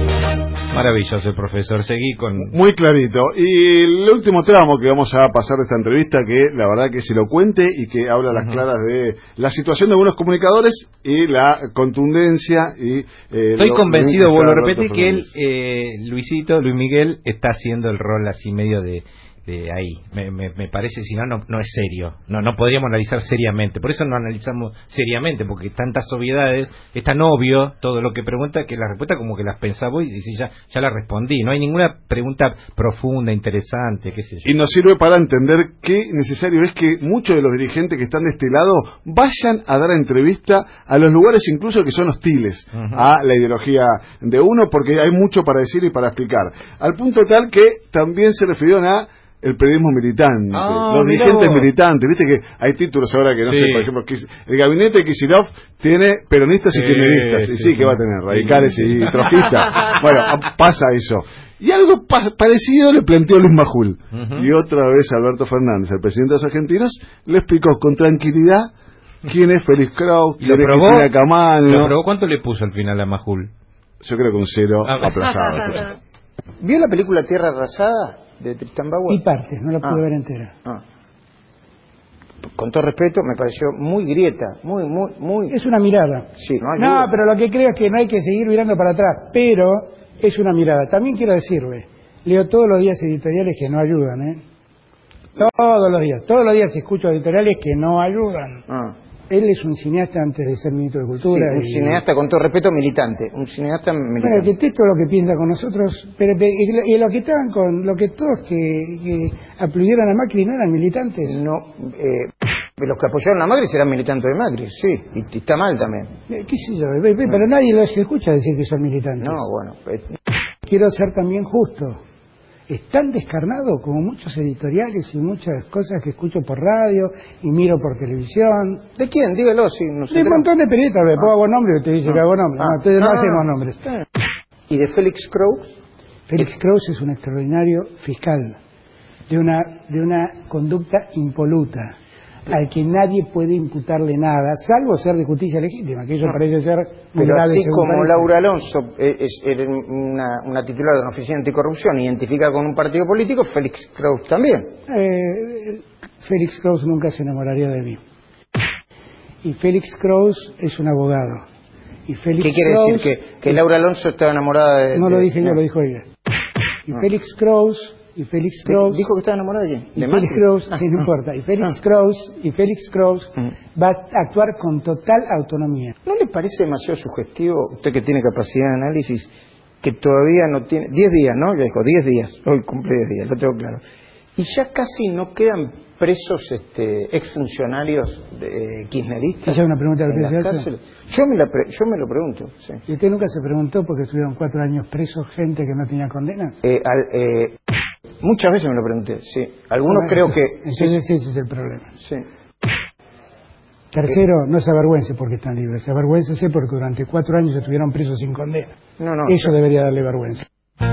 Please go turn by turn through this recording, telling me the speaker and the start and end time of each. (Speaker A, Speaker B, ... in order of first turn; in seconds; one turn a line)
Speaker A: 0.7-2.5
Speaker B: 2.4-15.3
Speaker A: 13.6-34.5
Speaker B: 34.4-68.7
Speaker A: 42.7-43.0
Speaker A: 50.5-51.7
Speaker A: 53.5-53.9
Speaker A: 56.7-60.0
Speaker A: 64.1-64.5
Speaker B: 69.2-71.9
Speaker A: 70.4-71.1
Speaker A: 71.6-73.5
Speaker B: 74.0-75.9
Speaker A: 74.8-75.8
Speaker C: 76.6-79.2
Speaker D: 79.1-80.5
Speaker C: 82.5-85.5
Speaker D: 85.5-94.4
Speaker C: 86.4-87.1
Speaker D: 95.3-98.6
Speaker C: 98.7-98.9
Speaker D: 99.3-102.0
Speaker C: 101.2-104.5
Speaker D: 104.2-111.4
Speaker C: 111.2-116.1
Speaker D: 116.3-119.4
Speaker C: 119.2-120.1
Speaker D: 120.6-122.0
Speaker D: 122.7-128.8
Speaker C: 129.0-130.5
Speaker D: 130.1-133.8
Speaker C: 132.0-134.0
Speaker C: 134.7-135.8
Speaker D: 136.3-138.5
Speaker D: 139.3-141.9
Speaker D: 142.5-148.3
Speaker C: 147.2-154.7
Speaker D: 154.9-158.0
Speaker D: 159.4-161.4
Speaker D: 162.1-163.2
Speaker C: 162.4-165.6
Speaker D: 164.9-166.1
Speaker D: 166.9-169.0
Speaker C: 168.7-170.8
Speaker D: 169.9-175.9
Speaker C: 176.1-179.3
Speaker C: 179.8-183.8
Speaker C: 184.3-192.8
Speaker D: 189.4-190.7
Speaker D: 192.9-196.6
Speaker C: 196.6-197.6
Speaker C: 198.2-200.9
Speaker D: 199.9-201.9
Speaker D: 203.9-208.7
Speaker C: 209.0-209.5
Speaker D: 209.2-210.4